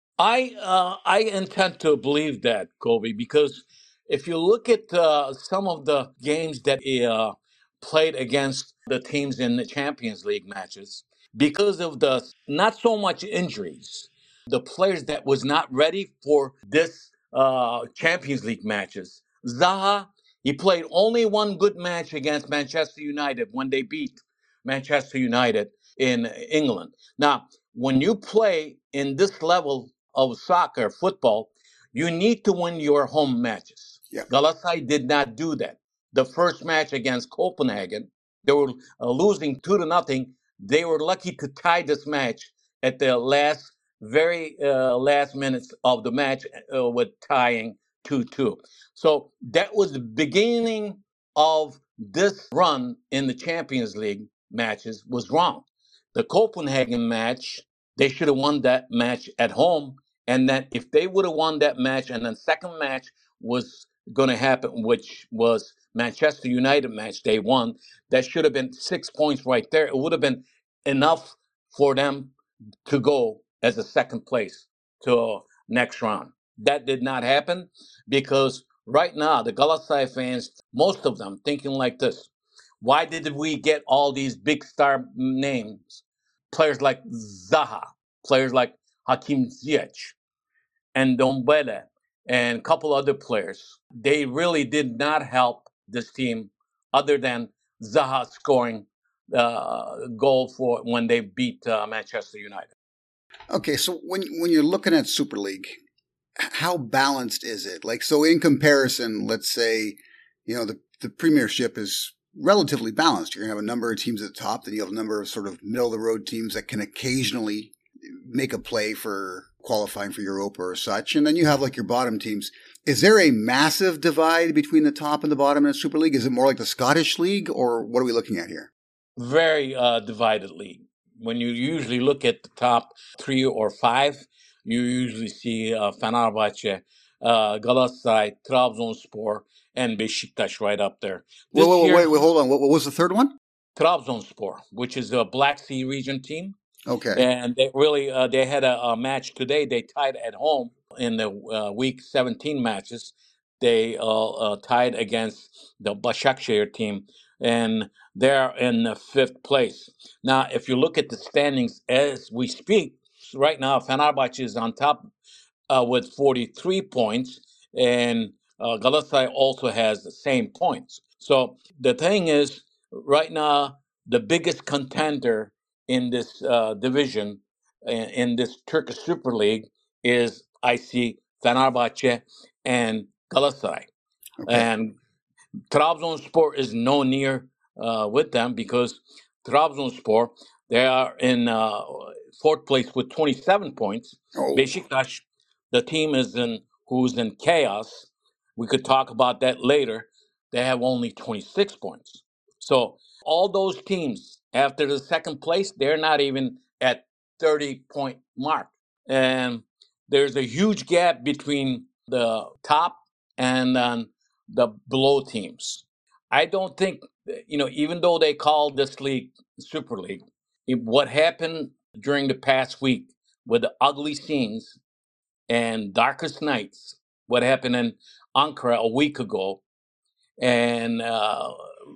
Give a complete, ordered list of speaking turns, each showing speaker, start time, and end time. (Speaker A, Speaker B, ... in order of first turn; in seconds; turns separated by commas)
Speaker A: 0.2-72.3, Speaker A: 72.8-82.3, Speaker A: 82.8-90.1, Speaker A: 90.9-102.7, Speaker B: 103.5-105.8, Speaker B: 106.4-128.7, Speaker A: 129.2-142.1, Speaker B: 141.5-143.3, Speaker A: 143.8-146.6, Speaker B: 146.9-147.2, Speaker A: 147.1-165.1, Speaker A: 165.7-183.9, Speaker B: 184.4-184.7, Speaker A: 184.5-185.0, Speaker A: 185.7-224.8, Speaker B: 194.3-194.7, Speaker A: 225.5-229.6, Speaker A: 230.4-231.7